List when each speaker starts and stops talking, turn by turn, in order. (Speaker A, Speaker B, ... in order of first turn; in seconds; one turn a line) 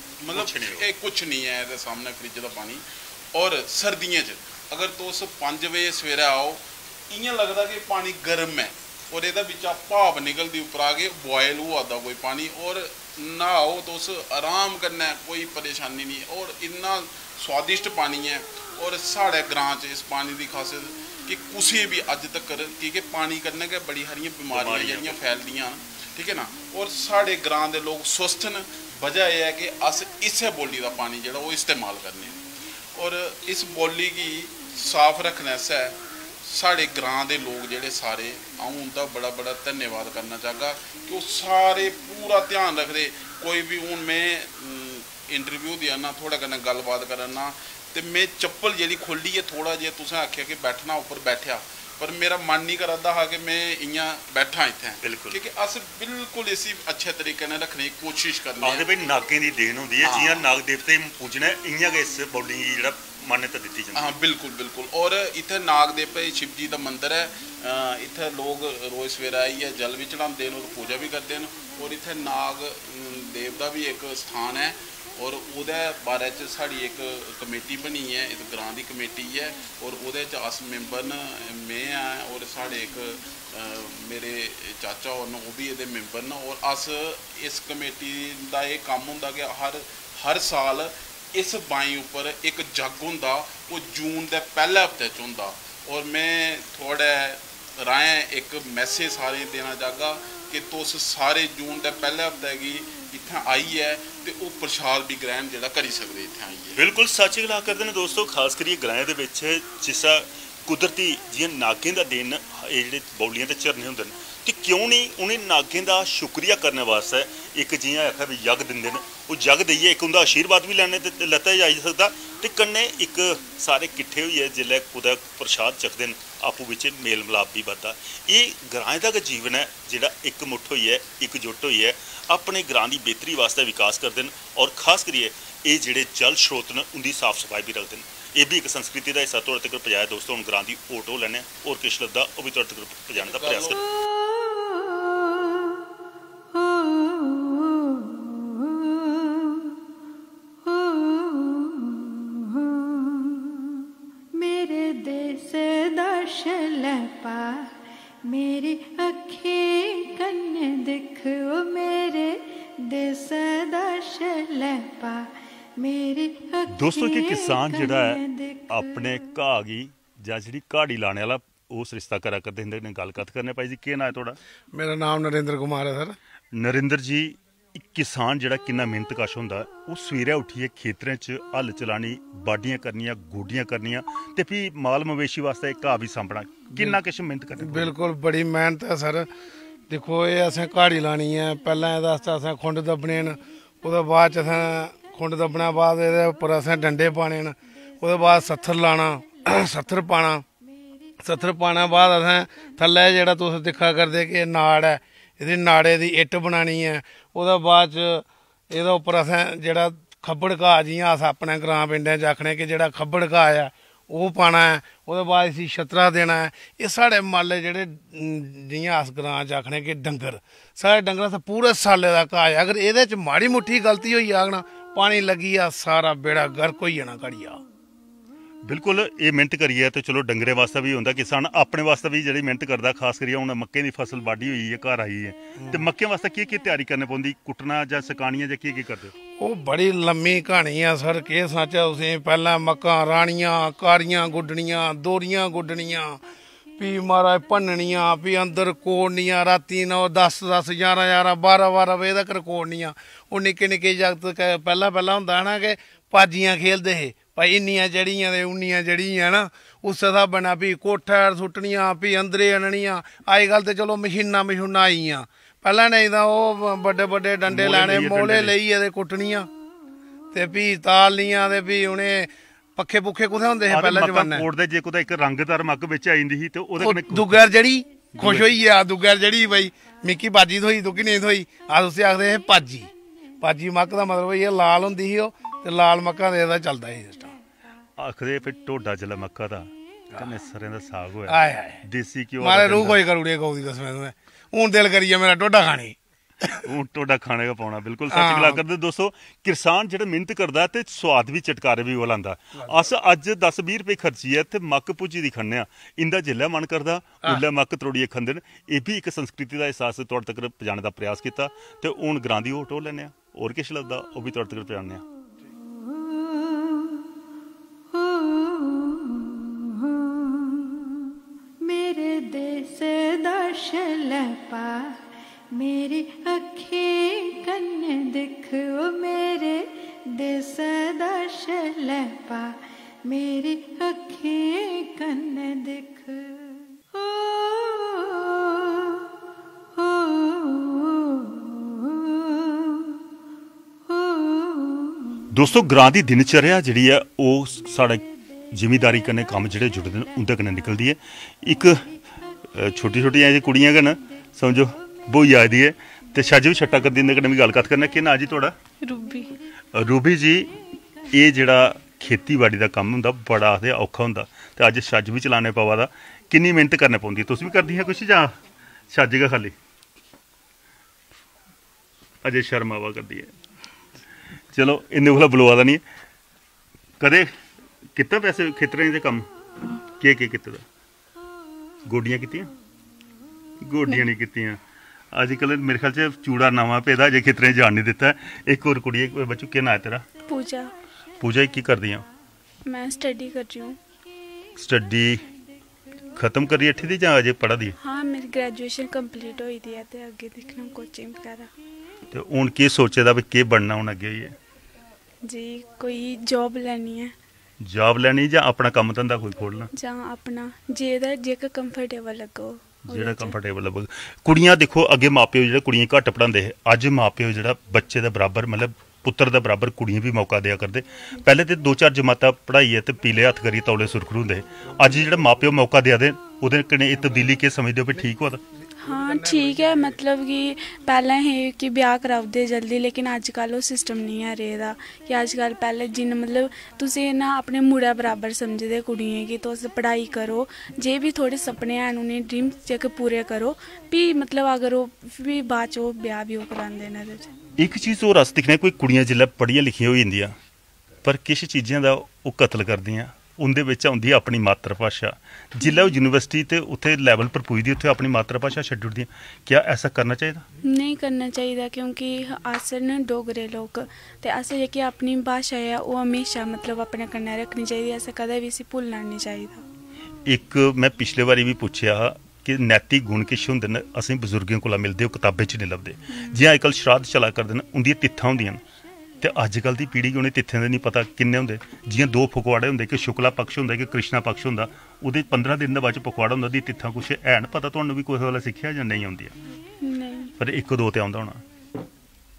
Speaker A: 0.2-32.4
Speaker B: 0.3-0.9
Speaker B: 24.5-25.2
Speaker A: 32.9-58.9
Speaker B: 55.0-55.4
Speaker B: 58.6-64.1
Speaker A: 60.0-60.5
Speaker A: 63.9-106.8
Speaker B: 106.8-143.8
Speaker A: 143.2-143.8
Speaker C: 144.5-145.3
Speaker C: 146.5-149.6
Speaker C: 150.6-153.4
Speaker C: 154.3-169.2
Speaker B: 166.7-174.4
Speaker D: 174.7-176.2
Speaker B: 176.5-187.9
Speaker D: 187.6-189.3
Speaker D: 189.9-200.4
Speaker D: 201.2-227.6
Speaker B: 228.6-239.1
Speaker D: 235.6-235.8
Speaker D: 239.4-246.2
Speaker D: 246.8-269.5
Speaker B: 267.5-268.5
Speaker D: 270.3-274.4
Speaker B: 273.7-277.4
Speaker D: 276.8-282.9
Speaker B: 278.1-278.6
Speaker D: 283.4-287.3
Speaker B: 288.0-293.0
Speaker D: 291.3-291.8
Speaker D: 292.4-296.6
Speaker B: 296.6-315.0
Speaker D: 298.1-298.6
Speaker C: 317.9-320.1
Speaker C: 321.6-338.5
Speaker C: 339.8-342.5
Speaker C: 344.0-344.8
Speaker B: 345.3-351.8
Speaker B: 352.5-358.5
Speaker E: 358.8-359.3
Speaker B: 359.7-360.5
Speaker B: 361.1-368.3
Speaker B: 368.9-369.5
Speaker B: 372.2-373.3
Speaker B: 374.5-375.8
Speaker B: 377.0-377.3
Speaker B: 377.9-379.2
Speaker B: 380.0-380.6
Speaker B: 381.9-382.5
Speaker B: 383.6-384.6
Speaker B: 385.1-390.1
Speaker E: 390.3-390.7
Speaker B: 391.2-392.1
Speaker E: 392.6-393.8
Speaker B: 394.6-395.2
Speaker B: 396.1-397.7
Speaker E: 397.8-401.5
Speaker B: 402.1-404.3
Speaker E: 405.3-407.1
Speaker B: 407.6-409.7
Speaker E: 409.7-413.4
Speaker B: 412.9-428.4
Speaker E: 428.8-447.3
Speaker D: 428.9-429.9
Speaker B: 447.6-450.4
Speaker B: 451.0-460.4
Speaker E: 460.6-469.6
Speaker B: 470.3-478.6
Speaker E: 476.1-476.4
Speaker B: 479.2-489.3
Speaker E: 489.8-490.3
Speaker B: 490.4-491.4